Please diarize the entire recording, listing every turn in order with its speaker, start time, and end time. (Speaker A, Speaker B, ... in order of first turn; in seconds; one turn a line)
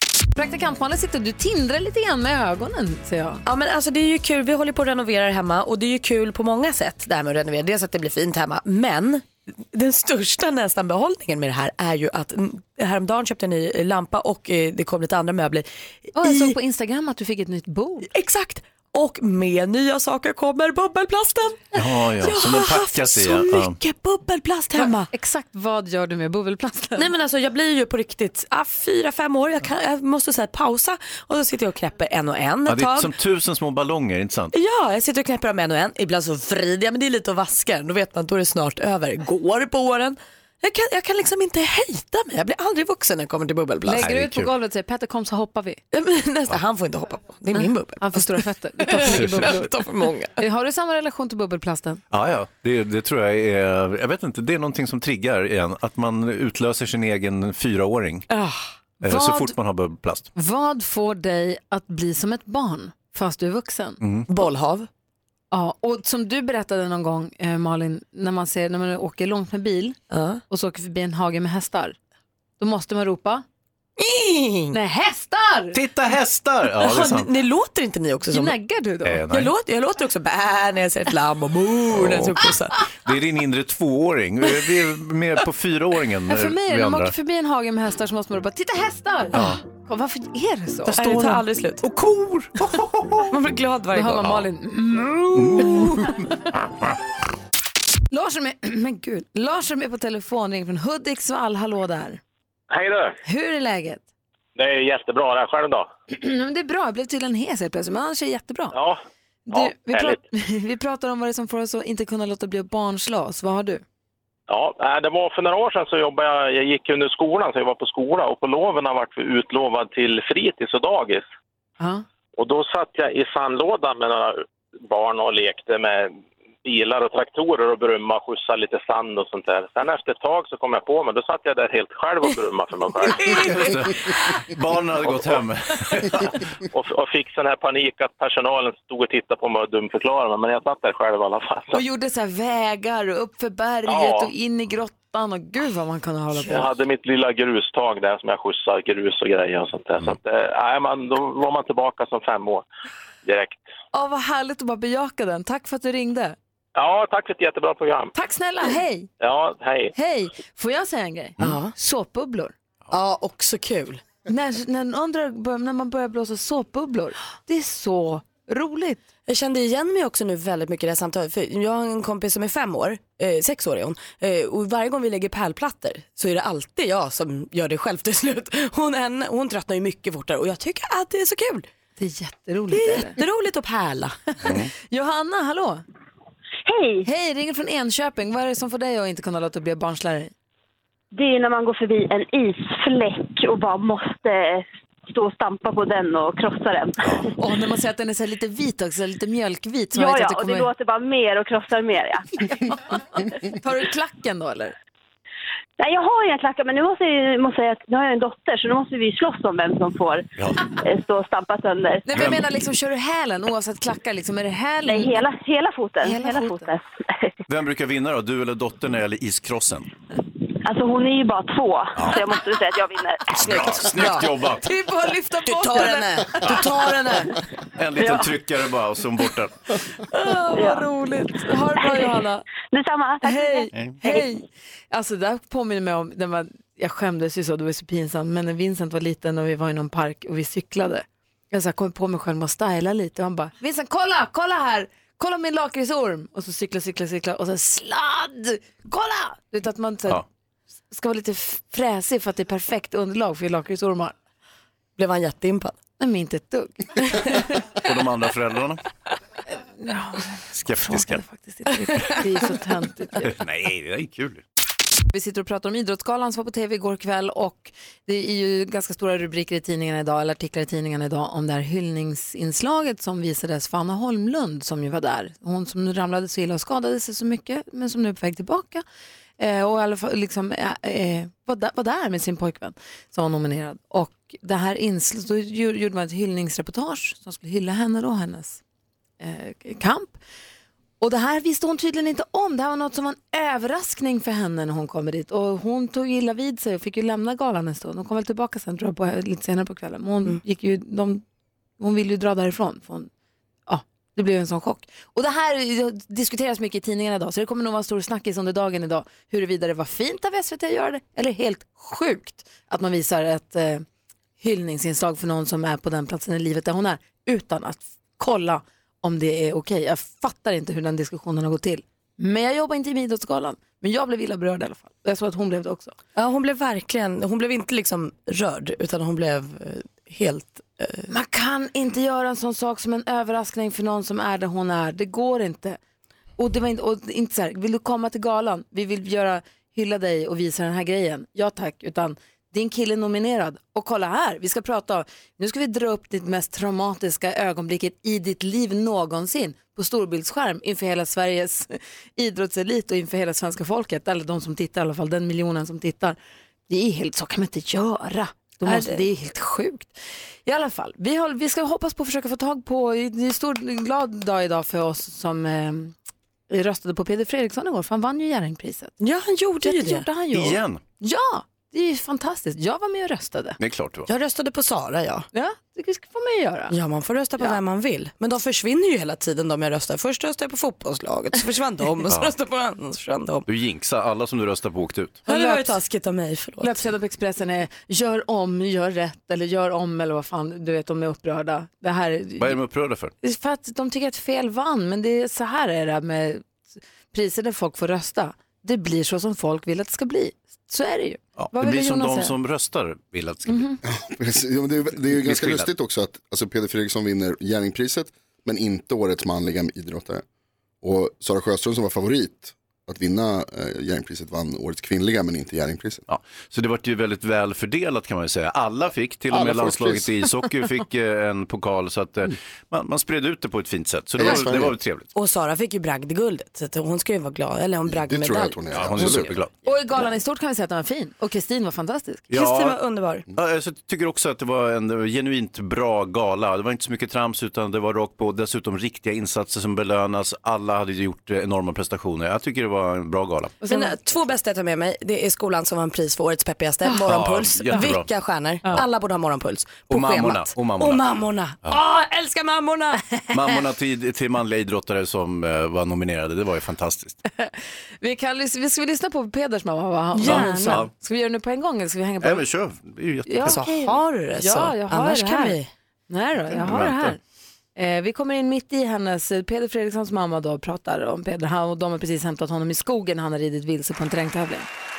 Speaker A: 0.4-3.4
Speaker B: 3.5-16.6
Speaker A: 16.1-18.1
Speaker B: 18.1-25.1
Speaker C: 21.8-23.8
Speaker A: 24.8-27.1
Speaker B: 27.0-33.1
Speaker C: 32.7-34.5
Speaker B: 34.5-44.0
Speaker A: 43.9-45.8
Speaker C: 44.0-44.5
Speaker B: 45.9-50.4
Speaker A: 47.6-49.7
Speaker C: 49.1-49.5
Speaker A: 50.4-52.0
Speaker C: 52.1-58.3
Speaker B: 58.3-58.6
Speaker A: 59.0-59.5
Speaker C: 59.0-60.3
Speaker A: 60.4-64.0
Speaker C: 64.0-64.3
Speaker B: 64.3-64.9
Speaker A: 65.5-70.0
Speaker B: 70.1-70.4
Speaker A: 70.5-72.0
Speaker A: 72.6-73.4
Speaker B: 74.0-74.8
Speaker A: 74.7-75.8
Speaker C: 75.7-77.3
Speaker B: 76.8-78.6
Speaker A: 78.3-79.2
Speaker C: 79.0-79.5
Speaker B: 79.3-82.8
Speaker C: 81.9-82.5
Speaker C: 83.0-87.1
Speaker A: 86.3-91.2
Speaker B: 90.9-91.9
Speaker C: 90.9-93.3
Speaker B: 92.6-94.4
Speaker A: 93.9-96.1
Speaker C: 95.3-96.3
Speaker B: 95.5-96.1
Speaker A: 98.1-102.2
Speaker D: 102.7-103.2
Speaker A: 103.2-104.0
Speaker D: 104.6-105.9
Speaker A: 106.1-108.7
Speaker D: 108.7-109.0
Speaker A: 109.5-113.8
Speaker D: 109.5-110.2
Speaker D: 114.5-121.2
Speaker A: 121.8-122.0
Speaker D: 122.4-133.3
Speaker B: 133.1-134.4
Speaker C: 133.3-136.4
Speaker D: 136.7-141.8
Speaker A: 141.7-146.7
Speaker D: 143.9-144.3
Speaker D: 146.4-152.7
Speaker D: 153.2-153.6
Speaker A: 153.9-156.4
Speaker D: 156.8-158.1
Speaker A: 158.1-159.1
Speaker D: 159.2-159.9
Speaker A: 159.9-162.5
Speaker B: 161.4-161.7
Speaker B: 162.9-164.0
Speaker A: 164.2-169.0
Speaker B: 169.3-181.7
Speaker A: 182.0-183.2
Speaker B: 182.7-184.2
Speaker C: 184.4-184.7
Speaker A: 184.4-185.8
Speaker E: 186.7-187.1
Speaker A: 187.0-190.3
Speaker E: 191.1-197.2
Speaker A: 197.4-200.7
Speaker E: 199.9-202.2
Speaker A: 202.5-204.7
Speaker E: 205.8-210.3
Speaker E: 210.8-212.1
Speaker A: 212.1-215.2
Speaker C: 212.1-212.4
Speaker E: 214.9-217.3
Speaker A: 216.0-216.7
Speaker C: 217.5-219.9
Speaker E: 220.6-223.3
Speaker C: 222.0-222.3
Speaker C: 223.3-224.7
Speaker B: 223.4-224.3
Speaker A: 224.6-226.6
Speaker B: 225.5-227.4
Speaker C: 226.4-226.8
Speaker C: 227.8-229.6
Speaker A: 230.1-232.4
Speaker E: 230.5-230.8
Speaker E: 231.8-232.2
Speaker E: 232.7-233.7
Speaker A: 233.2-250.2
Speaker C: 233.7-234.0
Speaker A: 250.9-254.1
Speaker B: 255.0-255.8
Speaker A: 256.0-257.6
Speaker C: 257.8-258.8
Speaker A: 259.8-263.3
Speaker C: 260.5-261.2
Speaker C: 263.2-264.4
Speaker A: 265.1-278.8
Speaker A: 279.4-288.6
Speaker A: 289.2-290.2
Speaker A: 291.0-301.2
Speaker A: 301.8-303.1
Speaker A: 303.7-313.9
Speaker A: 314.4-326.0
Speaker B: 326.1-331.1
Speaker A: 331.1-335.8
Speaker A: 336.4-356.2
Speaker A: 356.7-359.9
Speaker B: 358.6-359.0
Speaker A: 360.5-365.9
Speaker A: 366.5-368.9
Speaker B: 369.0-370.1
Speaker A: 369.6-373.6
Speaker C: 370.3-370.8
Speaker C: 373.6-374.1
Speaker B: 374.1-375.2
Speaker A: 375.3-376.7
Speaker B: 376.7-383.4
Speaker C: 383.5-385.2
Speaker B: 385.3-386.9
Speaker A: 385.3-385.8
Speaker A: 386.6-392.6
Speaker C: 392.4-393.1
Speaker A: 393.2-396.5
Speaker A: 397.1-402.4
Speaker C: 401.4-403.8
Speaker A: 403.5-403.8
Speaker F: 403.9-410.2
Speaker C: 405.1-405.7
Speaker F: 410.8-416.0
Speaker C: 416.1-425.1
Speaker F: 419.3-420.1
Speaker F: 424.1-424.8
Speaker B: 425.1-429.3
Speaker F: 427.9-429.3
Speaker C: 428.7-429.5
Speaker A: 429.6-432.3
Speaker C: 432.3-432.8
Speaker B: 432.3-433.2
Speaker C: 433.4-443.6
Speaker A: 443.6-444.0
Speaker B: 443.7-453.0
Speaker C: 447.1-448.1
Speaker C: 449.9-451.0
Speaker C: 453.3-457.2
Speaker A: 457.4-462.5
Speaker B: 460.1-460.9
Speaker C: 460.2-460.9
Speaker C: 462.2-463.6
Speaker A: 463.3-465.6
Speaker B: 463.4-465.7
Speaker A: 466.1-467.2
Speaker C: 466.6-467.1
Speaker A: 467.8-474.7